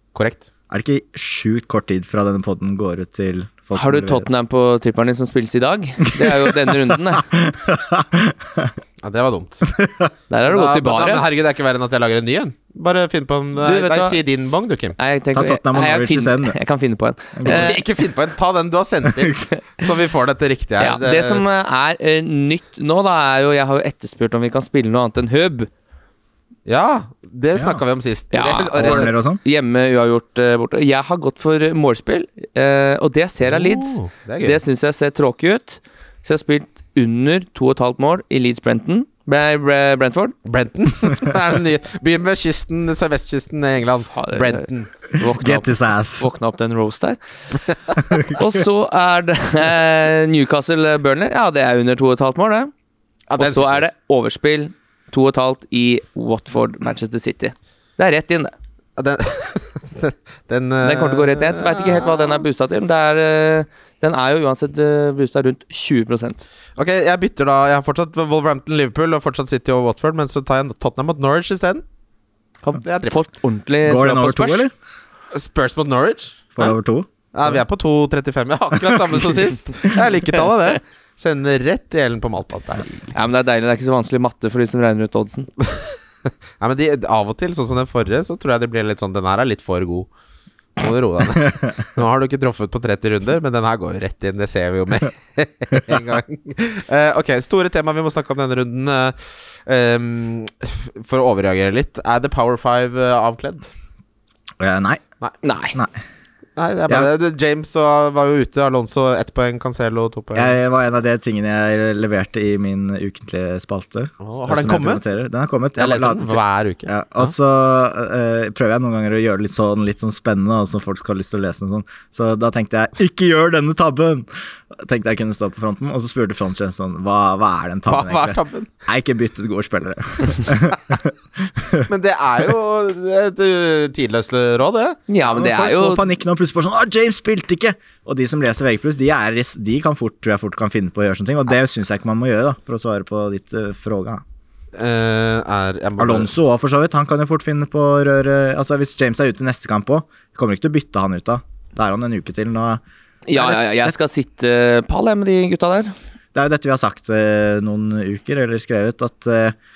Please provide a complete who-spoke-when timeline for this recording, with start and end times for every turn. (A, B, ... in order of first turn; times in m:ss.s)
0:00.2-0:00.5 A
0:00.7-0:04.3 B
0:03.7-0:07.3 C
0:06.2-0:08.7 B
0:09.0-0:09.7 A
0:09.7-0:10.1 B
0:10.3-0:11.2 C
0:10.5-0:15.0 A
0:13.6-0:14.2 C
0:15.0-0:17.8 C
0:15.3-0:16.6 B
0:17.4-0:17.8 B
0:17.4-0:21.4 A
0:19.2-0:19.4 B
0:20.8-0:25.7 C
0:26.7-0:29.1 A
0:27.6-0:27.8 B
0:28.3-0:40.4 C
0:28.7-0:29.4 B
0:33.5-0:34.6 A
0:40.4-0:44.9 A
0:44.2-0:44.6 C
0:45.1-0:46.3 B
0:45.2-0:47.2 C
0:48.1-0:48.4 B
0:48.2-0:52.7 C
0:53.3-0:53.9 A
0:53.4-0:58.5 C
0:59.0-1:02.4 A
1:00.8-1:06.5 C
1:06.8-1:11.8 A
1:12.6-1:14.7 C
1:12.8-1:13.2 A
1:13.8-1:14.7 B
1:15.3-1:16.7 A
1:16.6-1:17.6 B
1:17.3-1:23.0 A
1:19.0-1:19.4 B
1:23.1-1:25.5 C
1:26.6-1:30.1 A
1:30.8-1:43.7 A
1:44.6-1:45.0 B
1:45.4-1:45.8 C
1:46.6-1:50.5 A
1:50.3-2:11.9 B
1:54.2-1:55.0 A
1:55.8-1:57.3 A
2:07.9-2:08.7 A
2:11.9-2:15.0 A
2:15.1-2:16.1 C
2:15.3-2:24.2 B
2:24.8-2:26.3 A
2:26.0-2:32.8 B
2:33.3-2:35.9 C
2:33.4-2:33.9 B
2:36.3-2:39.6 B